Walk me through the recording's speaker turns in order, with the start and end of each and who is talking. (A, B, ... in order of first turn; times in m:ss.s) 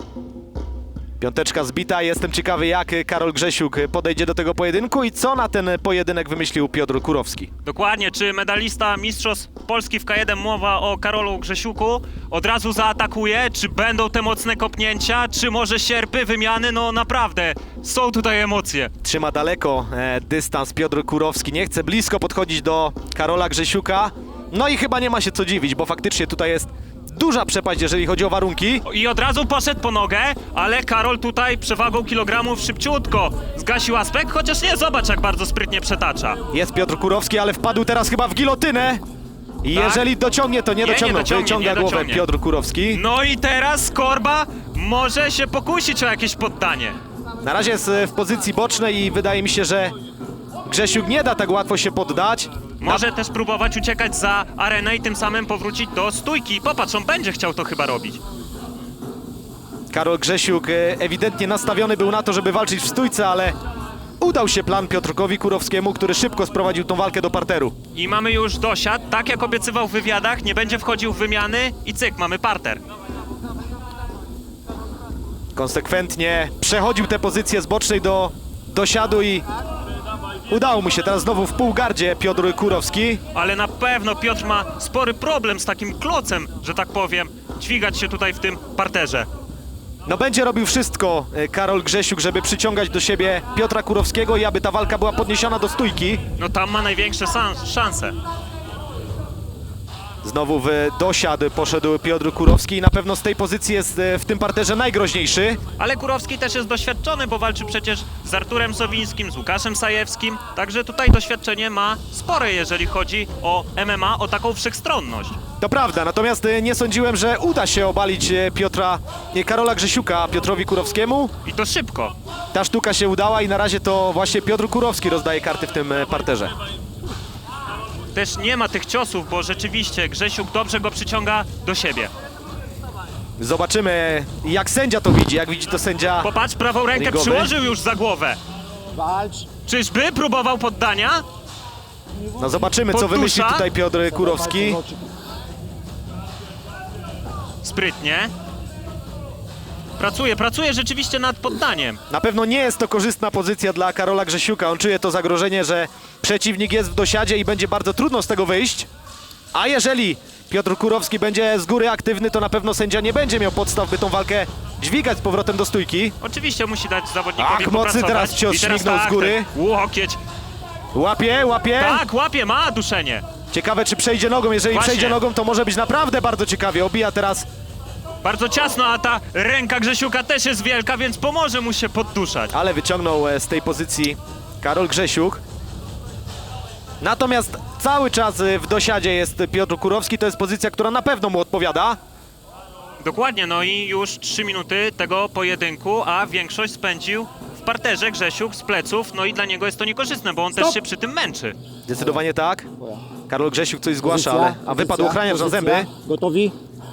0:01.2-0:07.5 A
0:07.6-0:18.9 B
0:19.0-0:28.8 A
0:28.8-0:36.4 B
0:36.5-0:39.0 A
0:39.6-0:43.0 A
0:39.7-0:40.1 B
0:40.8-0:42.2 B
0:42.9-0:47.0 B
0:47.4-0:49.9 A
0:50.6-0:53.0 A
0:52.8-0:58.2 B
0:59.9-1:03.6 A
1:04.2-1:07.7 A
1:07.9-1:12.8 B
1:15.5-1:19.4 A
1:20.5-1:23.2 A
1:23.3-1:29.3 B
1:30.0-1:36.2 A
1:36.4-1:38.2 B
1:40.2-1:45.6 A
1:45.8-1:55.4 B
1:55.6-2:01.3 A
2:01.4-2:02.1 B
2:02.5-2:06.5 A
2:08.1-2:12.1 B
2:13.4-2:16.3 A
2:16.2-2:18.4 B
2:16.9-2:17.6 A
2:18.9-2:19.4 C
2:19.6-2:21.2 B
2:22.4-2:24.8 A
2:22.9-2:23.6 B
2:24.1-2:25.0 C
2:27.6-2:28.3 B
2:30.0-2:32.0 B
2:32.1-2:38.9 A
2:39.5-2:46.1 A
2:46.2-2:50.2 B
2:47.4-2:49.5 A
2:50.9-2:52.0 A
2:51.8-2:53.2 B
2:53.5-2:57.4 A
2:54.7-2:55.2 B
2:58.2-3:02.5 B
3:02.5-3:05.4 A
3:07.0-3:12.0 A
3:13.0-3:21.6 B
3:21.9-3:25.9 A
3:24.1-3:26.5 C